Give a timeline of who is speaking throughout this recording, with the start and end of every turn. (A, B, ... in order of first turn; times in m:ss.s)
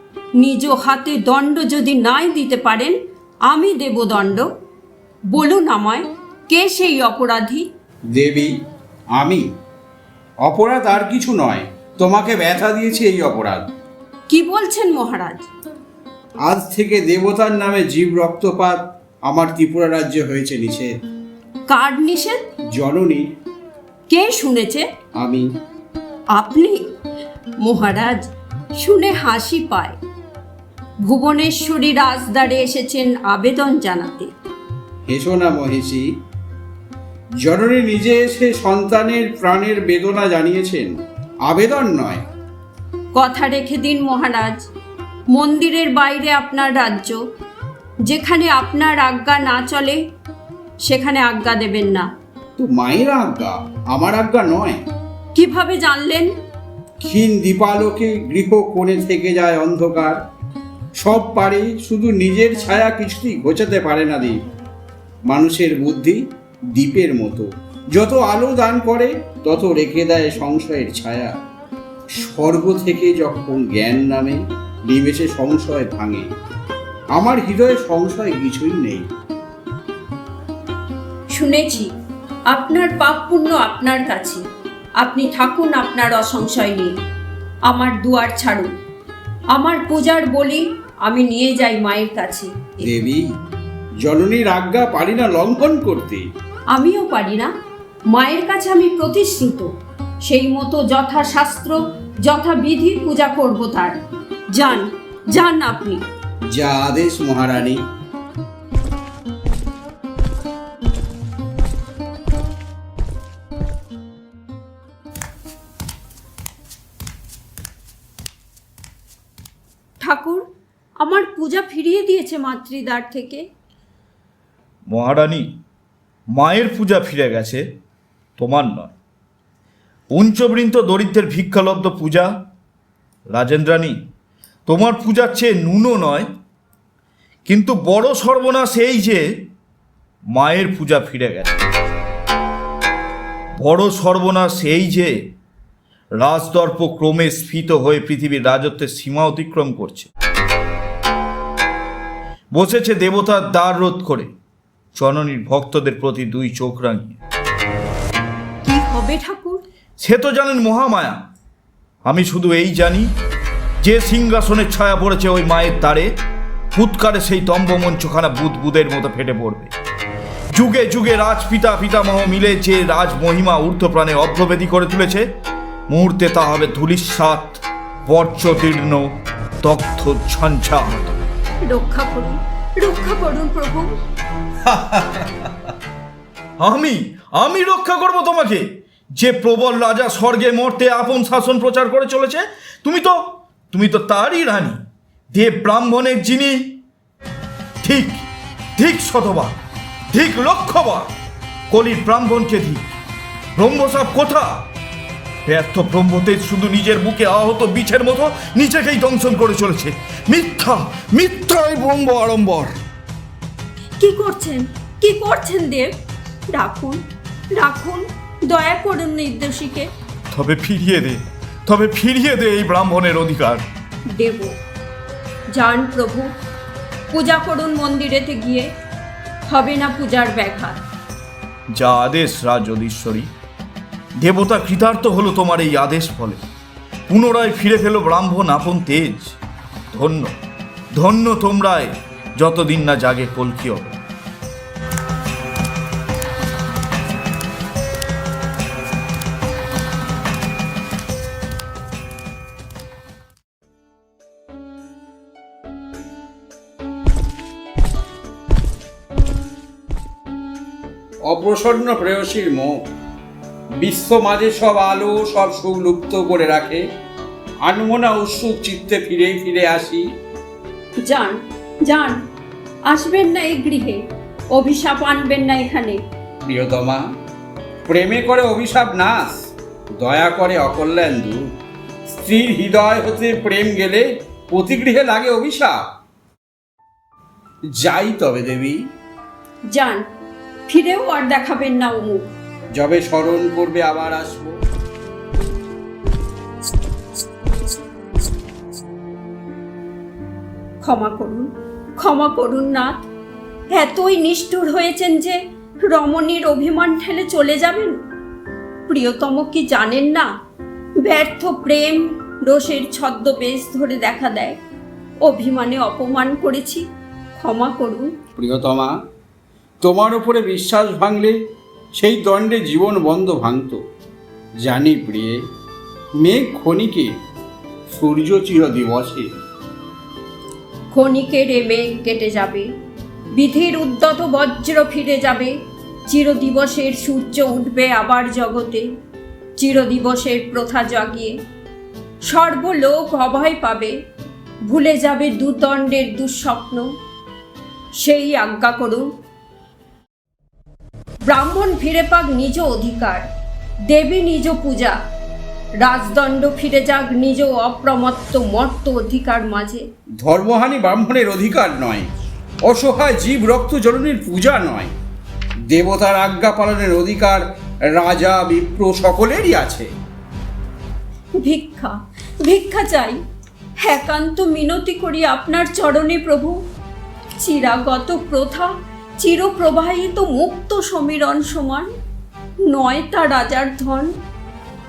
0:00.4-0:03.0 A
0:03.5-0:04.5 A
0:05.3-0:07.6 A
0:08.2-0:08.5 B
0:09.2-0:09.4 B
0:10.4-0:13.7 B
0:14.3-0:15.5 A
0:16.5-0:20.9 B
0:21.7-0:22.4 A
0:22.7-0:23.2 B
0:24.1-0:24.9 A
0:25.2-0:25.5 B
0:26.3-0:26.8 A
0:27.6-0:28.3 A
0:28.8-0:30.0 A
0:31.0-0:34.3 A
0:35.1-0:36.1 B
0:37.4-0:42.2 B
0:43.2-0:44.7 A
0:45.3-0:47.2 A
0:48.0-0:50.0 A
0:50.8-0:52.1 A
0:52.6-0:54.8 B
0:55.4-0:56.3 A
0:57.0-1:00.2 B
1:01.0-1:04.4 B
1:05.3-1:06.2 B
1:06.7-1:11.3 B
1:12.2-1:16.3 B
1:17.2-1:19.1 B
1:21.3-1:21.9 A
1:22.5-1:24.4 A
1:25.0-1:27.0 A
1:27.7-1:28.7 A
1:29.6-1:32.8 A
1:32.8-1:33.2 B
1:34.0-1:36.3 B
1:36.7-1:37.5 A
1:38.1-1:39.7 A
1:40.2-1:44.0 A
1:44.5-1:46.0 A
1:46.5-1:47.8 B
2:00.0-2:00.5 A
2:01.0-2:03.4 A
2:04.9-2:05.6 C
2:06.3-2:07.6 C
2:08.4-2:08.9 C
2:10.1-2:12.3 C
2:13.3-2:14.0 C
2:14.7-2:16.3 C
2:17.5-2:19.2 C
2:20.3-2:21.6 C
2:23.6-2:25.2 C
2:26.2-2:30.1 C
2:32.5-2:34.3 C
2:35.0-2:37.2 C
2:38.6-2:39.6 A
2:40.0-2:41.2 C
2:42.0-2:43.1 C
2:43.8-2:46.1 C
2:46.7-2:49.7 C
2:50.5-2:55.2 C
2:55.9-2:59.1 C
2:59.6-3:01.2 C
3:01.6-3:03.9 A
3:06.6-3:14.8 C
3:15.3-3:16.8 C
3:17.8-3:18.2 C
3:18.8-3:19.6 C
3:20.1-3:21.1 C
3:21.7-3:22.9 C
3:23.6-3:24.7 C
3:25.5-3:32.8 C
3:34.0-3:35.9 A
3:36.5-3:37.0 A
3:37.6-3:39.9 A
3:40.3-3:43.6 C
3:44.2-3:44.5 A
3:45.5-3:46.3 A
3:47.1-3:48.7 A
3:49.5-3:50.8 A
3:51.8-3:53.3 C
3:54.2-3:56.4 C
3:57.1-3:59.4 C
3:59.9-4:00.3 C
4:00.9-4:04.0 C
4:21.3-4:22.7 B
4:23.8-4:26.8 B
4:27.6-4:30.0 B
4:31.0-4:32.2 A
4:32.9-4:34.0 A
4:34.5-4:36.0 A
4:36.5-4:37.0 B
4:37.9-4:39.4 B
4:40.0-4:41.4 B
4:42.1-4:45.8 B
4:47.8-4:48.8 B
4:49.7-4:50.0 A
4:50.7-4:52.2 A
4:52.8-4:54.6 B
5:00.8-5:03.0 A
5:03.7-5:08.0 A
5:08.9-5:10.3 A
5:11.0-5:14.6 A
5:15.2-5:16.8 A
5:17.4-5:18.1 A
5:18.4-5:18.9 B
5:19.8-5:21.4 B
5:22.0-5:23.8 B
5:24.6-5:25.4 B
5:26.2-5:27.1 B
5:27.9-5:29.3 B
5:30.9-5:32.7 A
5:33.4-5:35.6 A
5:36.1-5:38.9 A
5:39.6-5:41.4 A
5:42.3-5:43.9 A
5:44.7-5:46.9 A
5:48.0-5:49.1 A
5:51.3-5:53.3 A
5:53.9-5:55.0 A
5:55.8-5:59.8 A
6:00.2-6:02.1 B
6:02.7-6:04.9 B
6:05.7-6:07.4 B
6:07.9-6:09.9 B
6:11.4-6:13.2 A
6:13.8-6:16.6 A
6:17.4-6:21.9 A
6:22.7-6:24.1 A